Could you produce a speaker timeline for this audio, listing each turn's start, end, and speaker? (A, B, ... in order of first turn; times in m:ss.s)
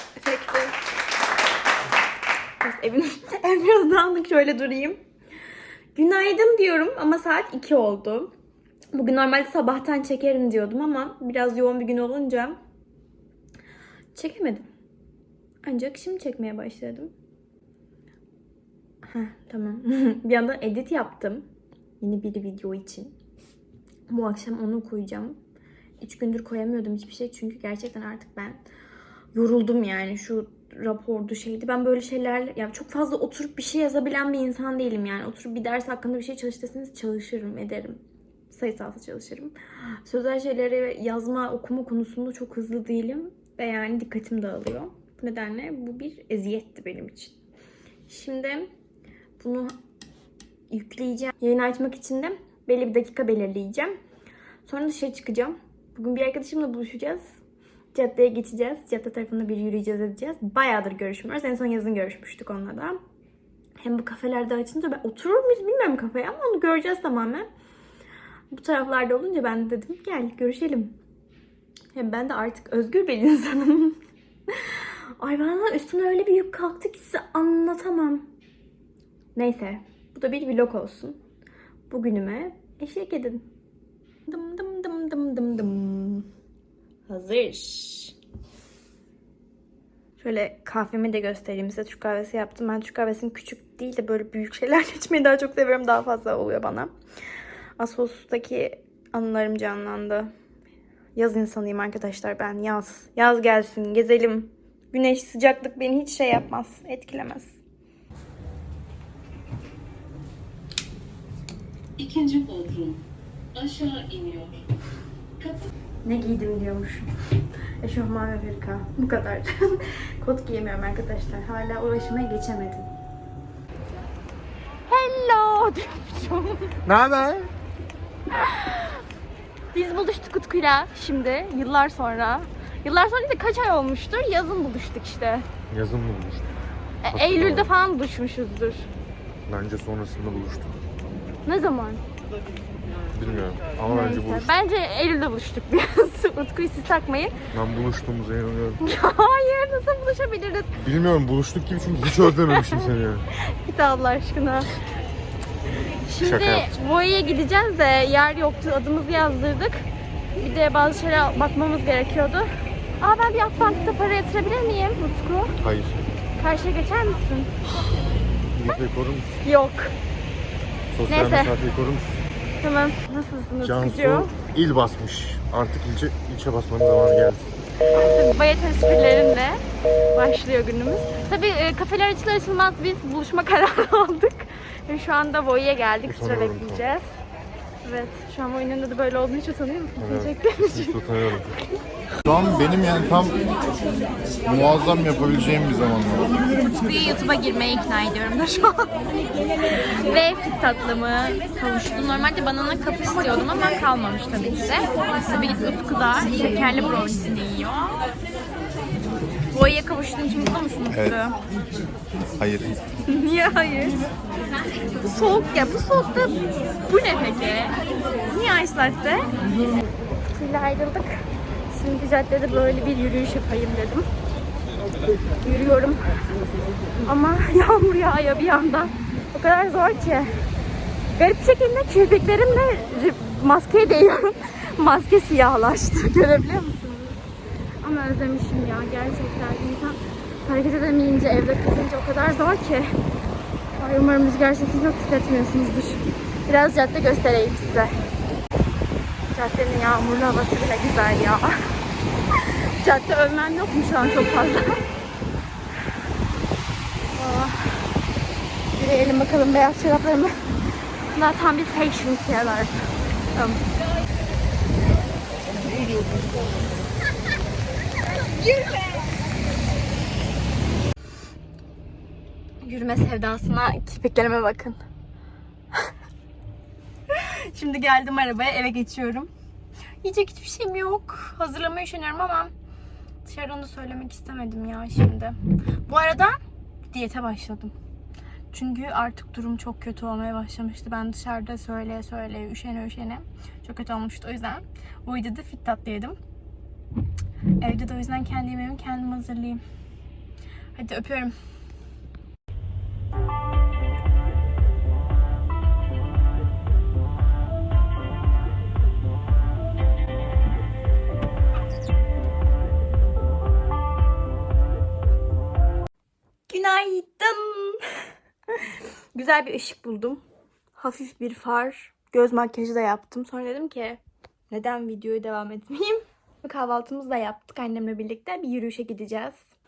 0:00.2-0:00.8 A
0:02.6-0:05.0 A
0:06.0-0:08.3 A
0:08.9-0:12.6 A
0:14.2-0:14.7 A
0:15.6-0:17.1 A
0:19.1-0:21.5 A
0:22.0-0:23.1 A
0:24.1-0:25.4 A
0:26.0-0:28.6 A
0:29.3-0:47.4 A
0:48.1-0:48.7 A
0:49.4-0:49.7 A
0:50.7-0:53.9 A
0:54.6-0:57.3 A
0:57.9-1:03.0 A
1:03.8-1:07.5 A
1:08.5-1:10.9 A
1:11.9-1:14.0 A
1:14.5-1:18.3 A
1:19.4-1:21.2 A
1:21.9-1:23.4 A
1:24.3-1:26.3 A
1:27.1-1:28.1 A
1:30.2-1:36.9 A
1:37.8-1:40.3 A
1:41.2-1:47.6 A
1:52.0-1:53.0 B
1:53.6-1:54.6 B
1:56.0-1:57.1 A
1:57.8-2:02.9 A
2:04.9-2:06.8 A
2:06.9-2:07.5 C
2:08.3-2:08.9 A
2:09.7-2:15.5 A
2:15.7-2:16.5 C
2:17.0-2:18.9 A
2:17.1-2:17.7 C
2:19.5-2:20.8 C
2:21.5-2:22.0 A
2:23.1-2:24.5 C
2:23.9-2:27.4 A
2:27.5-2:28.8 C
2:28.8-2:30.7 A
2:30.8-2:33.3 C
2:32.2-2:32.9 A
2:33.4-2:34.7 A
2:36.1-2:39.9 A
2:36.2-2:36.7 C
2:40.4-2:42.5 A
2:43.0-2:45.6 A
2:45.6-2:46.1 C
2:46.4-2:47.6 A
2:48.5-2:49.3 C
2:49.4-2:49.9 A
2:50.9-2:52.2 C
2:51.1-2:51.6 A
2:52.6-2:54.3 A
2:53.6-2:57.5 C
2:57.9-2:59.6 A
3:00.1-3:07.1 A
3:06.0-3:06.8 C
3:07.8-3:11.1 A
3:10.0-3:11.6 C
3:12.3-3:13.4 C
3:12.3-3:12.9 A
3:14.4-3:16.3 C
3:14.5-3:14.9 A
3:16.2-3:18.9 A
3:19.9-3:28.0 A
3:29.5-3:31.4 A
3:30.9-3:31.2 C
3:32.4-3:32.8 C
3:33.1-3:34.1 A
3:35.0-3:37.8 A
3:38.3-3:39.3 A
3:40.3-3:44.1 A
3:45.4-3:46.2 A
3:47.0-3:50.4 A
3:51.2-3:57.2 A
3:57.8-4:02.9 A
4:03.8-4:08.1 A
4:09.3-4:11.5 A
4:12.8-4:14.8 A
4:17.1-4:17.9 A
4:18.8-4:20.5 A
4:21.1-4:22.7 A
4:23.3-4:23.6 A
4:28.4-4:29.1 A
4:32.6-4:34.8 A
4:37.1-4:39.3 A
4:40.0-4:42.5 A
4:43.2-4:45.4 A
4:45.9-4:46.4 A
4:46.9-4:47.7 A
4:48.5-4:56.2 A
4:57.6-4:59.6 A
5:00.8-5:01.3 A
5:16.5-5:17.8 A
5:19.1-5:20.2 A
5:20.8-5:29.4 A